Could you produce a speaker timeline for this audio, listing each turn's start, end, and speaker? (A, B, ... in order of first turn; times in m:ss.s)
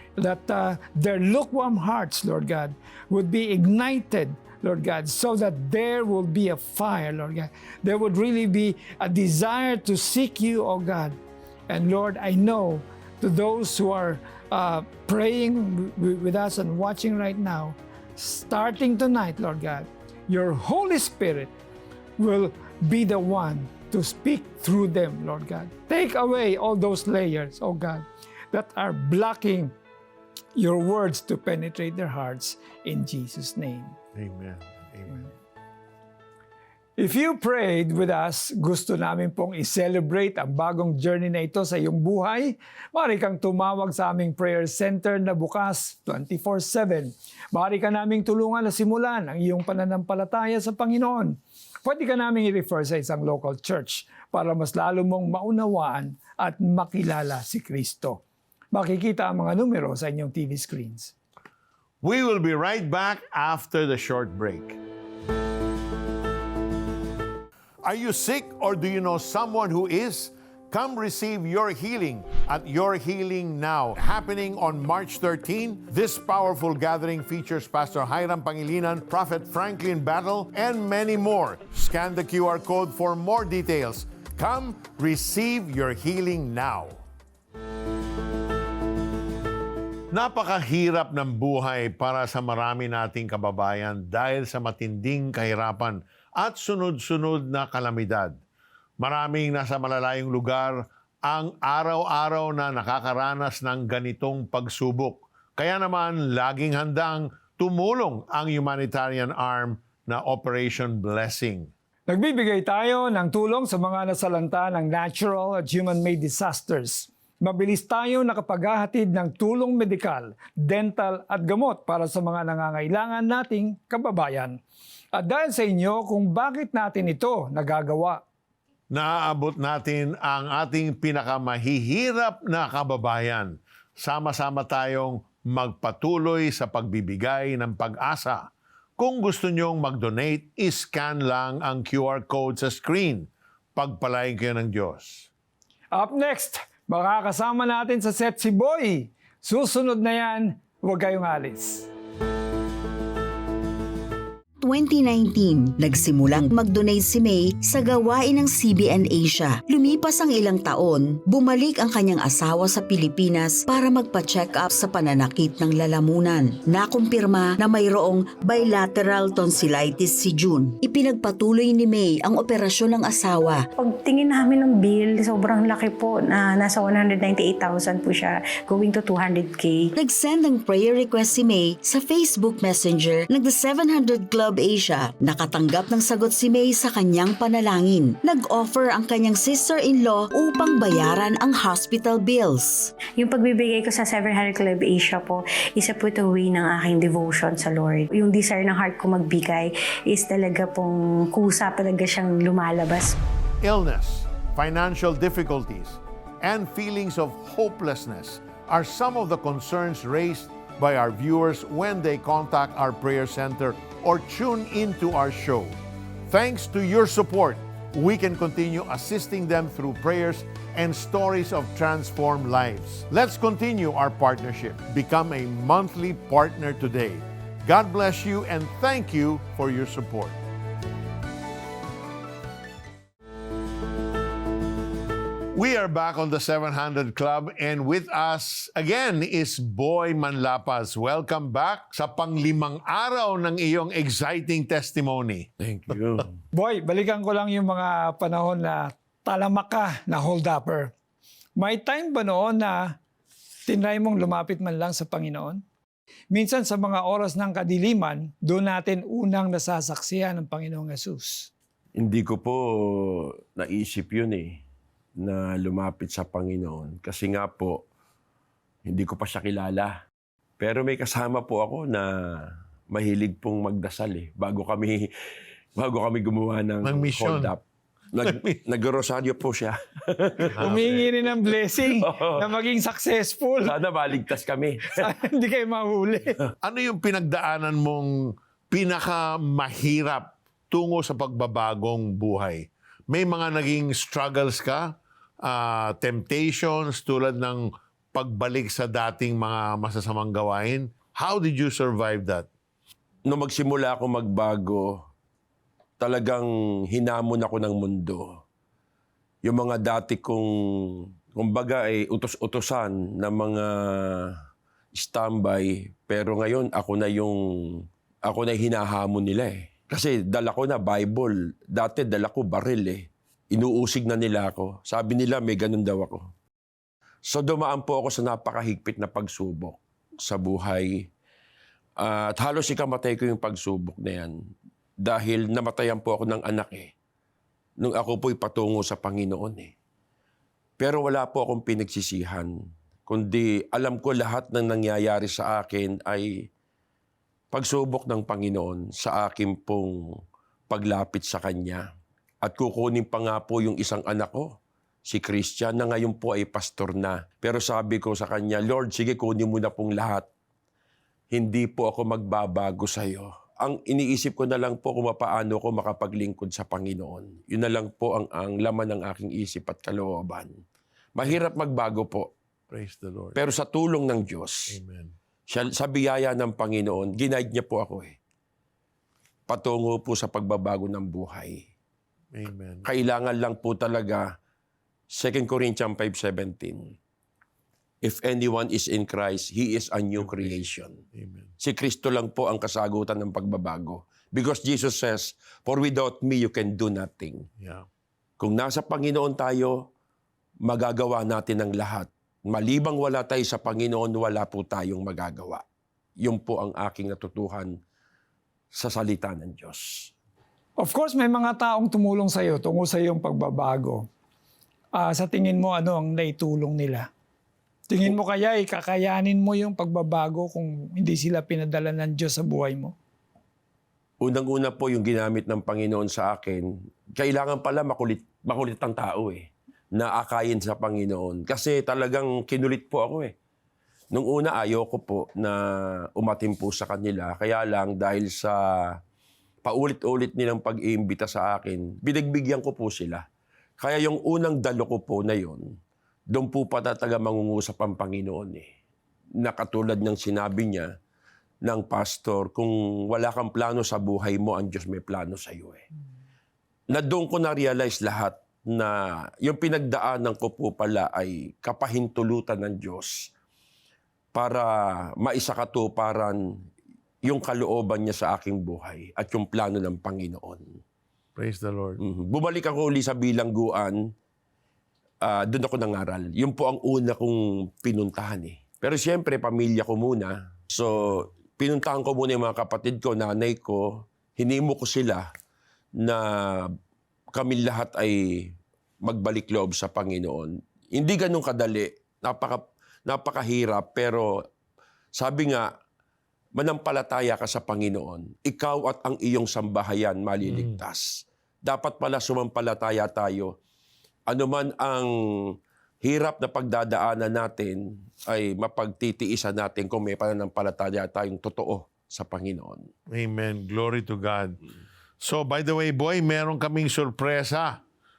0:00.2-0:11.2 A
0:11.7-0:21.5 A
0:22.2-0:29.7 A
0:30.6-0:34.0 A
0:34.2-0:35.3 B
0:37.0-0:58.2 A
0:58.7-1:01.1 A
1:02.0-1:04.8 B
1:07.8-1:27.0 B
1:30.1-1:38.4 B
1:39.0-1:51.7 B
1:52.1-2:04.6 A
2:05.2-2:08.2 A
2:08.9-2:25.3 B
2:25.9-2:31.9 A
2:34.6-2:53.7 C
2:53.8-2:59.9 D
3:00.0-3:12.9 C
3:13.2-3:23.1 D
3:23.6-3:35.8 B
3:36.3-3:50.4 B
3:55.5-4:05.5 B
4:05.6-4:06.3 E
4:06.6-4:10.9 A
4:11.6-4:13.0 A
4:13.7-4:15.6 A
4:16.3-4:21.5 A
4:22.0-4:24.6 E
4:25.2-4:27.8 E
4:28.8-4:30.0 E
4:30.6-4:35.1 E
4:35.8-4:37.6 E
4:36.8-4:37.5 B
4:38.1-4:41.1 E
4:38.2-4:38.6 B
4:40.5-4:40.9 B
4:40.6-4:43.8 A
4:41.8-4:42.5 E
4:43.6-4:45.0 E
4:44.9-4:46.4 A
4:46.6-5:02.5 B
5:03.3-5:05.0 E
5:06.0-5:08.3 E
5:09.4-5:10.5 E
5:11.4-5:14.4 E
5:15.0-5:26.3 E
5:27.3-5:31.0 E
5:32.0-5:34.4 E
5:35.0-5:36.9 E
5:37.8-5:39.7 E
5:40.8-5:42.5 E
5:43.1-5:46.3 E
5:47.5-5:49.9 E
5:50.7-5:51.8 E
5:52.4-5:54.5 E
5:55.1-6:00.3 E
6:01.3-6:10.5 E
6:11.2-6:12.3 E
6:12.7-6:13.4 B
6:13.4-6:14.8 E
6:14.7-6:15.1 B
6:15.5-6:18.2 E
6:19.5-6:21.6 E
6:22.3-6:22.9 B
6:22.8-6:24.2 E
6:25.1-6:26.9 E
6:28.0-6:31.0 E
6:30.2-6:31.5 B
6:31.6-6:37.5 E
6:37.6-6:37.9 B
6:38.4-6:39.9 E
6:40.6-6:45.6 E
6:46.2-6:47.8 E
6:48.7-6:50.1 E
6:50.8-6:54.1 A
6:55.0-6:57.1 A
6:57.9-7:03.0 A
7:04.2-7:13.3 E
7:14.1-7:15.6 E
7:16.2-7:18.6 E
7:19.6-7:23.2 E
7:23.8-7:25.6 E
7:26.3-7:28.7 E
7:29.4-7:30.9 E
7:31.6-7:35.8 E
7:36.9-7:43.3 E
7:44.3-7:46.4 E
7:47.2-7:50.7 E
7:51.4-7:52.0 B
7:52.0-7:54.0 E
7:55.2-8:05.3 E
8:06.0-8:06.7 E
8:07.4-8:08.2 E
8:09.0-8:14.3 E
8:15.2-8:15.7 E
8:16.6-8:23.6 E
8:20.5-8:20.8 B
8:24.3-8:25.1 E
8:26.0-8:32.9 E
8:33.1-8:34.6 B
8:35.2-8:37.8 B